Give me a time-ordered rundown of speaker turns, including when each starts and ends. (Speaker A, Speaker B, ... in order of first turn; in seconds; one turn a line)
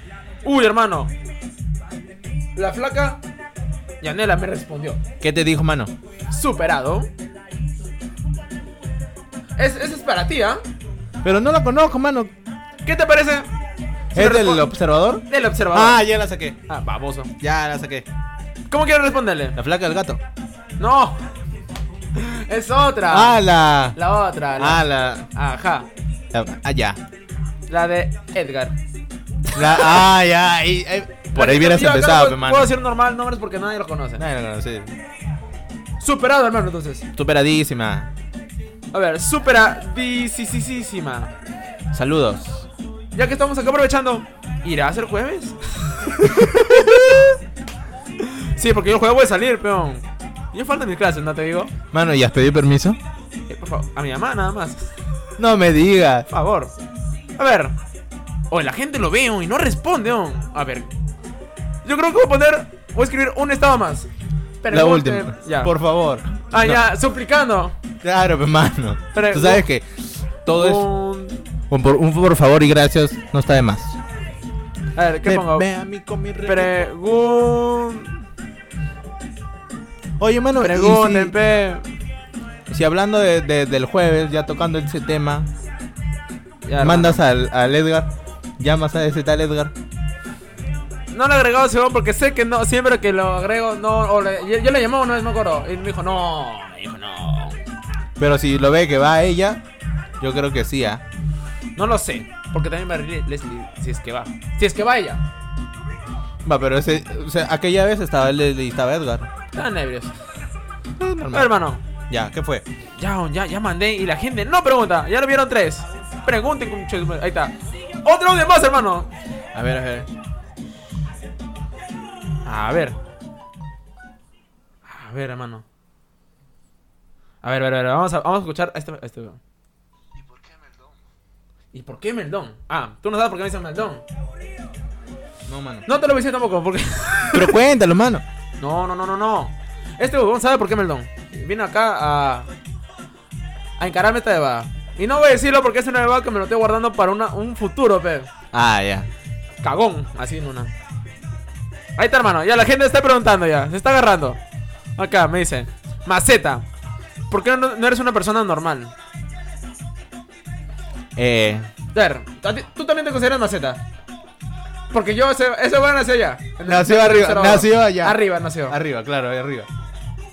Speaker A: 0.4-1.1
Speaker A: 2.6-3.2
Speaker A: 4.0-5.0
Speaker B: 5.2-5.9
Speaker A: 6.3-7.1
Speaker A: 9.6-10.6
Speaker B: 11.2-12.3
Speaker A: 12.8-13.5
Speaker A: 14.2-14.7
Speaker B: 14.2-16.6
Speaker A: 15.3-16.1
Speaker A: 16.7-17.3
Speaker B: 17.4-18.1
Speaker A: 18.7-19.6
Speaker B: 19.6-20.2
Speaker A: 20.8-21.2
Speaker A: 22.1-23.4
Speaker B: 23.1-24.0
Speaker A: 23.9-25.9
Speaker B: 24.6-25.3
Speaker B: 26.3-27.0
Speaker A: 27.7-28.8
Speaker A: 29.5-30.0
Speaker B: 29.5-32.7
Speaker A: 31.3-34.2
Speaker B: 34.2-34.9
Speaker A: 36.0-37.1
Speaker B: 37.2-38.1
Speaker A: 38.9-41.3
Speaker B: 41.9-42.6
Speaker A: 43.1-46.7
Speaker B: 46.2-47.4
Speaker A: 48.2-51.7
Speaker B: 51.9-53.0
Speaker A: 53.5-54.9
Speaker B: 55.4-56.3
Speaker A: 56.3-56.7
Speaker A: 57.4-57.8
Speaker A: 58.5-60.9
Speaker A: 61.8-64.1
Speaker A: 64.6-65.7
Speaker B: 64.7-66.8
Speaker A: 66.5-67.8
Speaker B: 68.0-70.9
Speaker A: 69.1-69.7
Speaker A: 70.5-71.5
Speaker B: 71.7-74.0
Speaker A: 75.0-75.7
Speaker B: 75.2-76.8
Speaker A: 76.4-78.2
Speaker B: 80.2-81.3
Speaker A: 80.6-81.9
Speaker B: 82.7-85.5
Speaker A: 86.7-87.2
Speaker B: 86.8-89.7
Speaker A: 91.1-97.6
Speaker B: 98.2-99.6
Speaker B: 100.2-101.0
Speaker A: 101.8-105.2
Speaker B: 106.4-109.3
Speaker A: 109.5-110.2
Speaker B: 111.0-111.5
Speaker A: 111.3-111.8
Speaker B: 112.1-112.7
Speaker A: 113.0-119.1
Speaker B: 119.5-120.1
Speaker A: 122.5-123.0
Speaker A: 124.9-125.7
Speaker A: 127.4-129.4
Speaker A: 131.7-134.0
Speaker B: 135.5-135.9
Speaker A: 135.9-137.6
Speaker B: 137.3-138.2
Speaker A: 138.6-142.5
Speaker A: 143.8-148.3
Speaker B: 148.5-149.1
Speaker A: 149.6-150.7
Speaker A: 152.0-154.4
Speaker A: 155.0-156.7
Speaker A: 157.3-158.9
Speaker B: 161.2-161.7
Speaker A: 161.9-163.8
Speaker A: 164.9-168.8
Speaker B: 166.7-169.7